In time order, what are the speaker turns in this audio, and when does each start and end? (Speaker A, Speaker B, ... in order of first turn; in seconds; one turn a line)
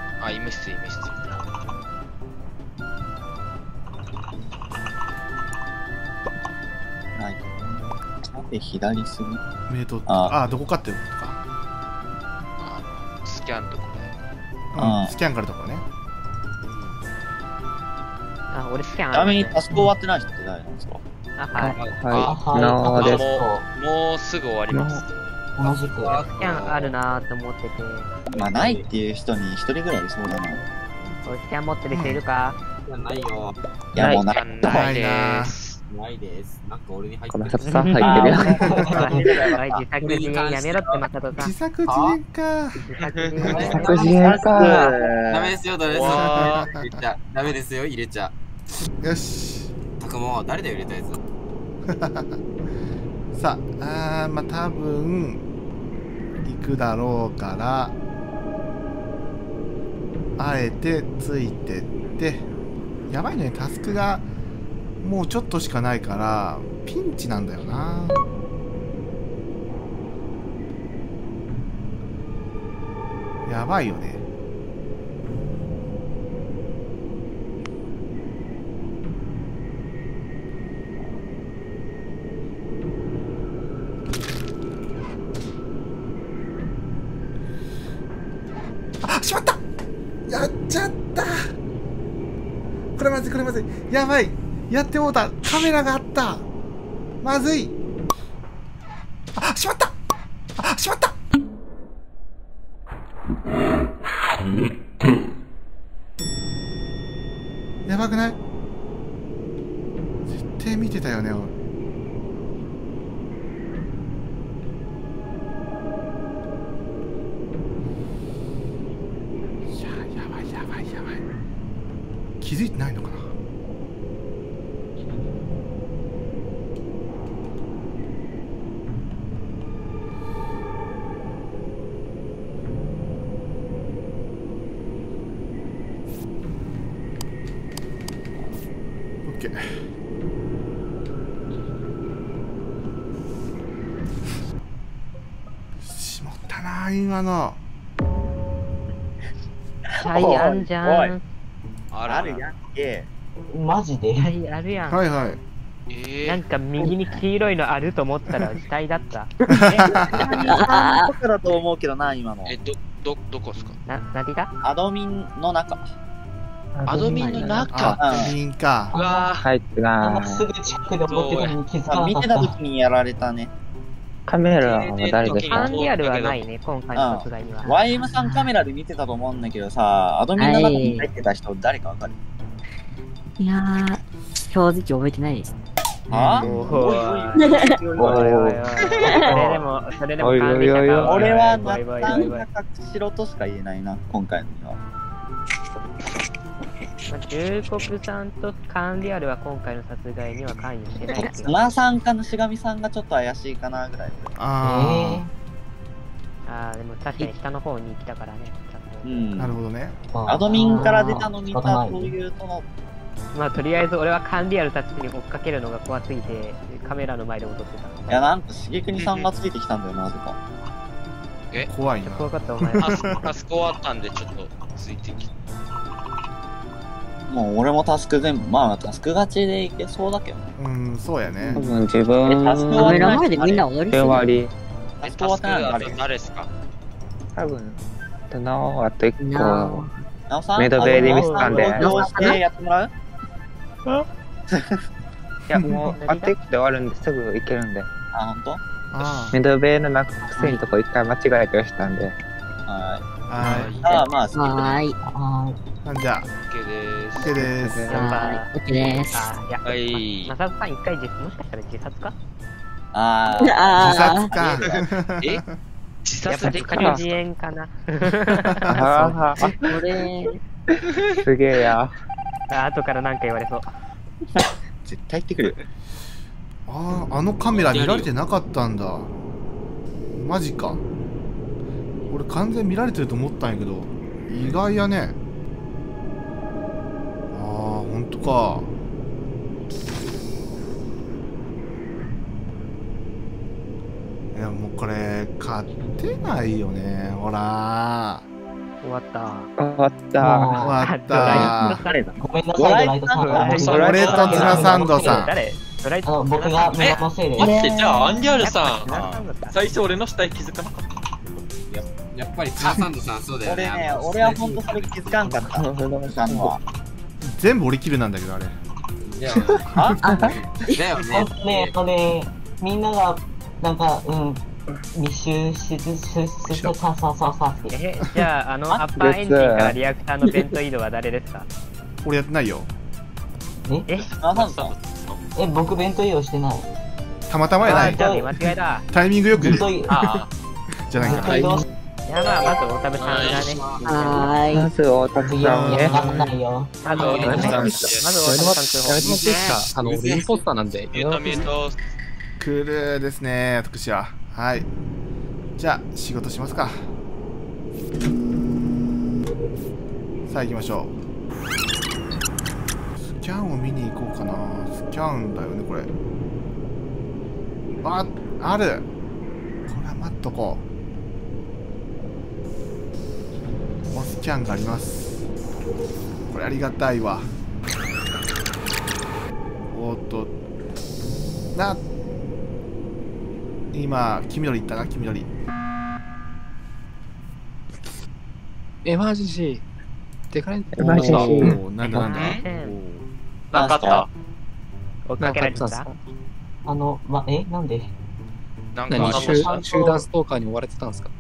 Speaker A: 0.2-1.4
Speaker B: 7.2-7.7
Speaker B: 8.2-9.4
Speaker C: 9.7-11.4
Speaker B: 10.1-10.4
Speaker A: 12.6-14.1
Speaker C: 14.7-15.8
Speaker B: 14.8-15.1
Speaker D: 18.5-19.6
Speaker B: 19.1-21.0
Speaker D: 21.4-21.8
Speaker E: 21.5-23.3
Speaker F: 21.8-22.1
Speaker A: 22.0-25.1
Speaker G: 22.2-23.7
Speaker E: 24.7-25.0
Speaker G: 25.6-26.2
Speaker F: 25.6-26.9
Speaker D: 26.2-28.1
Speaker B: 28.3-30.6
Speaker F: 28.3-28.9
Speaker D: 31.2-32.6
Speaker C: 31.9-32.2
Speaker F: 32.9-33.5
Speaker B: 33.9-34.9
Speaker E: 34.0-34.3
Speaker A: 34.3-35.8
Speaker C: 34.6-35.5
Speaker F: 35.9-39.0
Speaker E: 37.3-38.7
Speaker D: 37.6-41.5
Speaker B: 38.0-39.8
Speaker G: 38.6-39.4
Speaker F: 40.0-41.1
Speaker C: 41.4-42.8
Speaker F: 41.8-42.2
Speaker D: 42.8-44.1
Speaker F: 43.4-48.3
Speaker E: 43.6-44.9
Speaker B: 43.9-45.6
Speaker H: 45.9-46.6
Speaker C: 46.1-47.0
Speaker C: 49.0-49.7
Speaker F: 50.0-51.2
Speaker C: 51.9-52.4
Speaker C: 53.3-55.4
Speaker C: 56.4-58.0
Speaker C: 60.4-62.4
Speaker C: 63.1-64.3
Speaker C: 65.0-68.2
Speaker C: 73.5-74.2
Speaker C: 89.0-89.6
Speaker C: 90.3-91.5
Speaker C: 93.0-96.5
Speaker C: 97.2-97.7
Speaker C: 99.4-99.9
Speaker C: 100.6-101.1
Speaker C: 107.8-108.4
Speaker C: 110.3-111.5
Speaker C: 119.7-121.2
Speaker C: 122.4-123.3
Speaker C: 139.2-139.8
Speaker C: 145.8-147.6
Speaker B: 149.9-151.2
Speaker D: 150.0-151.2
Speaker A: 151.9-152.4
Speaker B: 152.1-153.1
Speaker G: 153.5-154.3
Speaker D: 154.2-155.0
Speaker C: 154.9-155.4
Speaker A: 155.9-156.4
Speaker D: 156.2-159.3
Speaker C: 159.5-160.4
Speaker B: 159.7-162.6
Speaker I: 160.4-161.1
Speaker A: 162.4-163.8
Speaker D: 163.8-164.5
Speaker B: 164.6-165.9
Speaker E: 166.7-167.9
Speaker A: 166.8-168.3
Speaker I: 167.0-167.5
Speaker C: 167.7-168.9
Speaker B: 168.0-168.3
Speaker G: 168.9-169.3
Speaker A: 168.9-169.5
Speaker E: 169.4-170.4
Speaker G: 170.0-172.6
Speaker A: 171.1-171.6
Speaker B: 171.8-173.5
Speaker E: 174.3-175.8
Speaker A: 174.6-176.5
Speaker D: 175.5-177.8
Speaker B: 176.9-182.1
Speaker I: 177.9-178.5
Speaker I: 180.3-181.1
Speaker I: 183.4-185.5
Speaker C: 186.1-187.0
Speaker B: 186.1-188.6
Speaker D: 186.4-192.4
Speaker I: 187.3-187.8
Speaker E: 187.9-188.6
Speaker I: 189.0-189.3
Speaker G: 189.3-189.6
Speaker E: 190.2-191.3
Speaker B: 191.0-194.8
Speaker D: 197.1-201.5
Speaker B: 201.1-204.4
Speaker C: 204.3-205.2
Speaker G: 204.6-205.3
Speaker D: 206.4-209.3
Speaker B: 209.0-209.6
Speaker C: 209.4-210.0
Speaker G: 210.1-212.1
Speaker B: 210.3-212.7
Speaker I: 210.6-211.2
Speaker D: 213.3-218.3
Speaker B: 218.1-220.4
Speaker A: 218.9-219.3
Speaker C: 221.7-223.2
Speaker D: 222.0-223.2
Speaker A: 222.8-225.3
Speaker B: 227.3-230.5
Speaker C: 230.6-231.6
Speaker E: 231.5-233.2
Speaker B: 232.2-233.7
Speaker I: 232.7-234.2
Speaker E: 233.9-234.5
Speaker B: 235.0-236.1
Speaker A: 235.0-236.5
Speaker E: 237.3-239.8
Speaker I: 239.2-239.9
Speaker B: 240.3-242.9
Speaker E: 240.6-242.2
Speaker D: 240.8-242.4
Speaker I: 241.8-242.4
Speaker B: 244.5-244.8
Speaker E: 245.5-247.9
Speaker C: 245.5-245.9
Speaker D: 246.0-246.3
Speaker B: 248.1-248.6
Speaker C: 248.9-249.4
Speaker E: 249.3-252.2
Speaker B: 252.7-253.1
Speaker C: 253.3-253.8
Speaker A: 253.4-253.8
Speaker B: 253.8-254.8
Speaker I: 254.3-254.9
Speaker G: 255.0-255.6
Speaker C: 255.8-256.3
Speaker A: 256.5-257.4
Speaker C: 257.2-258.1
Speaker E: 257.3-257.9
Speaker D: 257.9-258.5
Speaker I: 257.9-259.3
Speaker D: 259.1-262.1
Speaker A: 259.6-260.3
Speaker B: 262.9-264.3
Speaker I: 263.4-264.3
Speaker C: 263.8-265.6
Speaker A: 264.7-265.4
Speaker A: 266.0-267.2
Speaker D: 266.2-268.8
Speaker E: 266.5-267.0
Speaker C: 268.6-269.8
Speaker E: 268.7-269.5
Speaker I: 269.6-270.4
Speaker E: 271.2-271.9
Speaker D: 272.5-273.7
Speaker B: 274.3-275.6
Speaker C: 276.7-279.1
Speaker F: 277.5-278.1
Speaker C: 280.1-280.8
Speaker C: 282.1-285.2
Speaker C: 287.3-288.7
Speaker C: 294.3-298.2
Speaker D: 298.8-299.5
Speaker E: 299.6-300.5
Speaker G: 300.2-300.9
Speaker C: 300.6-301.9
Speaker D: 300.8-302.0
Speaker E: 301.2-301.6
Speaker B: 301.2-304.9
Speaker G: 302.2-305.2
Speaker D: 303.2-307.0
Speaker H: 303.4-304.7
Speaker C: 303.7-305.3
Speaker E: 303.7-304.5
Speaker G: 306.0-307.6
Speaker H: 307.4-311.1
Speaker D: 308.4-309.6
Speaker F: 311.7-315.2
Speaker C: 312.6-312.9
Speaker B: 313.4-316.6
Speaker E: 315.2-316.6
Speaker C: 317.3-318.6
Speaker F: 319.0-321.7
Speaker C: 319.3-320.3
Speaker B: 319.7-320.0
Speaker I: 320.0-320.8
Speaker G: 321.1-324.4
Speaker G: 324.9-327.8
Speaker C: 326.5-326.7
Speaker D: 327.7-331.5
Speaker E: 329.0-329.8
Speaker C: 332.0-332.7
Speaker D: 333.9-334.1
Speaker B: 334.2-334.8
Speaker H: 334.3-335.2
Speaker G: 335.4-336.7
Speaker C: 337.3-338.0
Speaker D: 337.6-338.9
Speaker G: 337.6-338.3
Speaker C: 338.9-340.2
Speaker G: 339.4-339.9
Speaker H: 339.9-340.3
Speaker C: 340.9-341.6
Speaker G: 341.0-341.6
Speaker E: 341.0-341.6
Speaker D: 342.1-344.3
Speaker F: 342.5-344.3
Speaker H: 343.0-343.5
Speaker I: 343.8-344.7
Speaker E: 344.5-346.2
Speaker G: 345.2-346.8
Speaker C: 345.4-346.3
Speaker D: 346.8-349.6
Speaker F: 346.9-347.5
Speaker A: 346.9-348.4
Speaker J: 347.1-351.5
Speaker C: 347.1-347.9
Speaker F: 349.0-350.5
Speaker A: 350.9-351.8
Speaker C: 352.4-354.7
Speaker C: 355.6-356.9
Speaker C: 360.3-360.9
Speaker C: 363.0-365.9
Speaker C: 367.8-368.9
Speaker C: 369.7-370.6
Speaker C: 373.9-375.3
Speaker C: 376.3-377.3
Speaker C: 379.7-380.3
Speaker C: 381.5-381.8
Speaker C: 383.7-385.3
Speaker J: 388.8-389.6
Speaker J: 390.3-391.6
Speaker E: 390.7-392.1
Speaker C: 390.8-393.0
Speaker D: 391.8-392.7
Speaker A: 392.1-392.4
Speaker H: 393.5-394.1
Speaker B: 393.5-394.1
Speaker D: 395.1-395.9
Speaker J: 395.2-396.0
Speaker G: 396.6-397.9
Speaker A: 398.7-399.6
Speaker J: 398.9-401.1
Speaker G: 398.9-400.1
Speaker H: 399.1-399.4